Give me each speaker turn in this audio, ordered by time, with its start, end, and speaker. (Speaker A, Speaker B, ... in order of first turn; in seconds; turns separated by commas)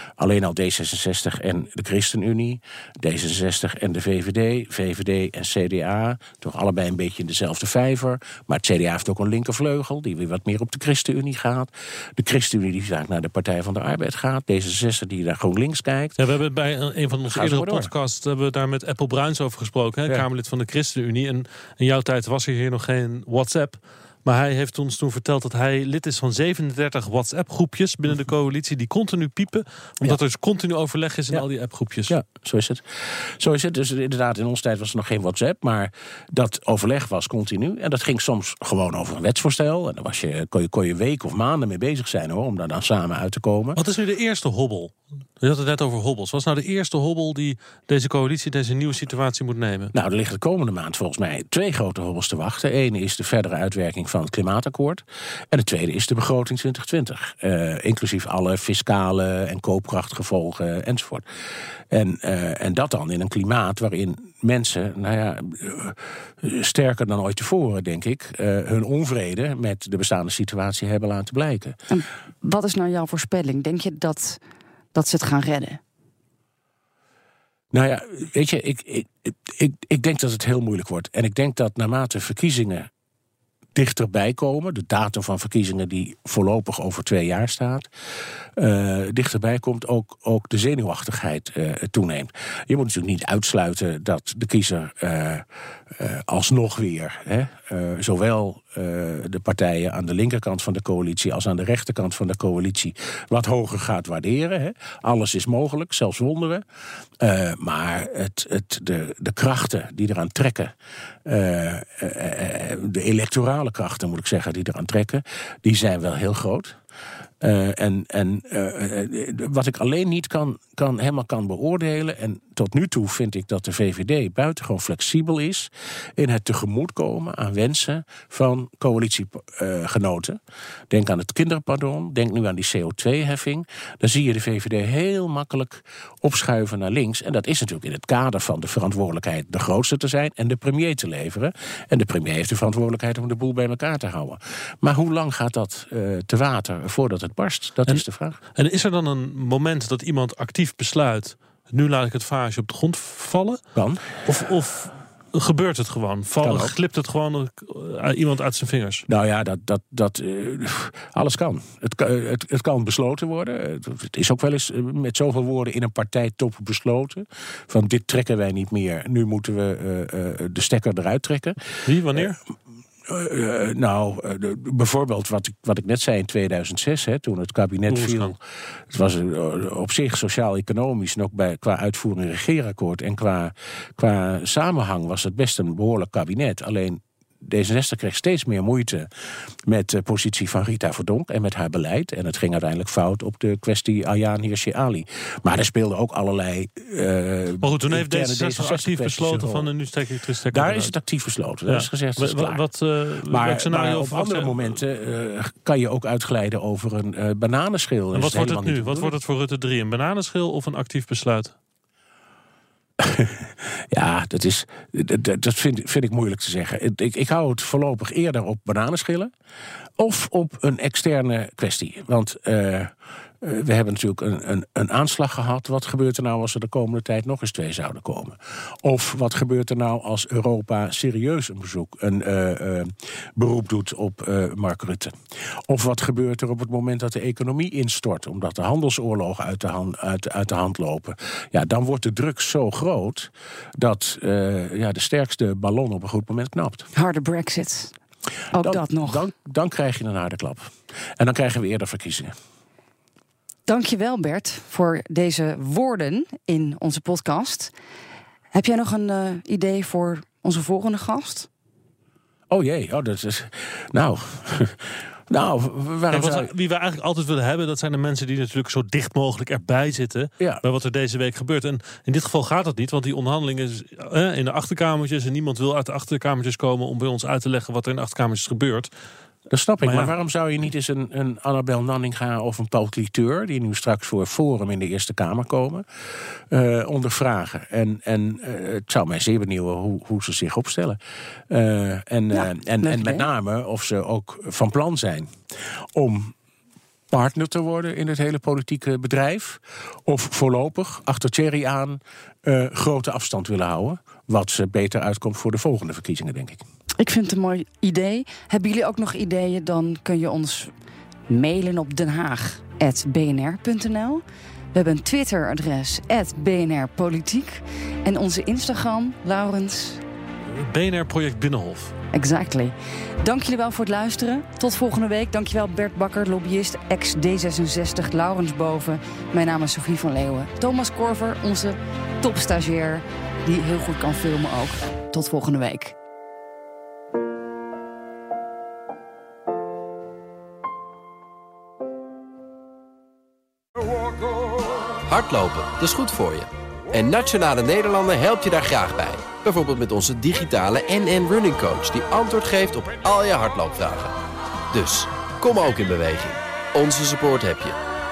Speaker A: 0.2-16.1, Speaker B: 16.2-32.1, Speaker A: 17.3-17.9, Speaker A: 32.1-43.8, Speaker B: 43.8-49.9, Speaker A: 49.9-61.2, Speaker A: 61.9-71.8, Speaker C: 71.9-74.4, Speaker C: 74.9-75.8, Speaker A: 77.7-82.9, Speaker A: 83.7-87.9, Speaker A: 88.6-106.6, Speaker A: 107.2-110.7, Speaker A: 111.2-116.8, Speaker A: 117.4-148.4, Speaker B: 148.5-153.6, Speaker A: 153.7-154.1, Speaker B: 154.2-159.0, Speaker A: 156.4-156.7, Speaker A: 159.1-171.6, Speaker B: 171.8-172.4, Speaker A: 172.1-172.4, Speaker A: 173.1-178.4, Speaker B: 177.9-178.3, Speaker A: 178.9-189.1, Speaker A: 189.6-199.7, Speaker B: 197.6-200.9, Speaker A: 200.5-202.6, Speaker B: 201.7-204.8, Speaker A: 203.2-209.1, Speaker B: 208.1-211.5, Speaker A: 213.0-219.3, Speaker A: 220.0-235.2, Speaker A: 235.7-246.9, Speaker C: 246.9-247.9, Speaker C: 248.5-249.2, Speaker A: 248.6-252.3, Speaker C: 253.7-257.7, Speaker C: 258.5-261.5, Speaker A: 262.5-266.5, Speaker B: 266.1-278.9, Speaker A: 279.5-285.8, Speaker B: 279.8-280.1, Speaker A: 286.4-295.3, Speaker C: 292.3-293.3, Speaker A: 295.9-296.3, Speaker A: 297.1-306.6, Speaker C: 307.0-310.7, Speaker C: 311.3-314.2, Speaker C: 314.7-320.0, Speaker B: 320.5-321.9, Speaker C: 322.1-335.9, Speaker D: 345.1-354.1, Speaker D: 354.7-357.8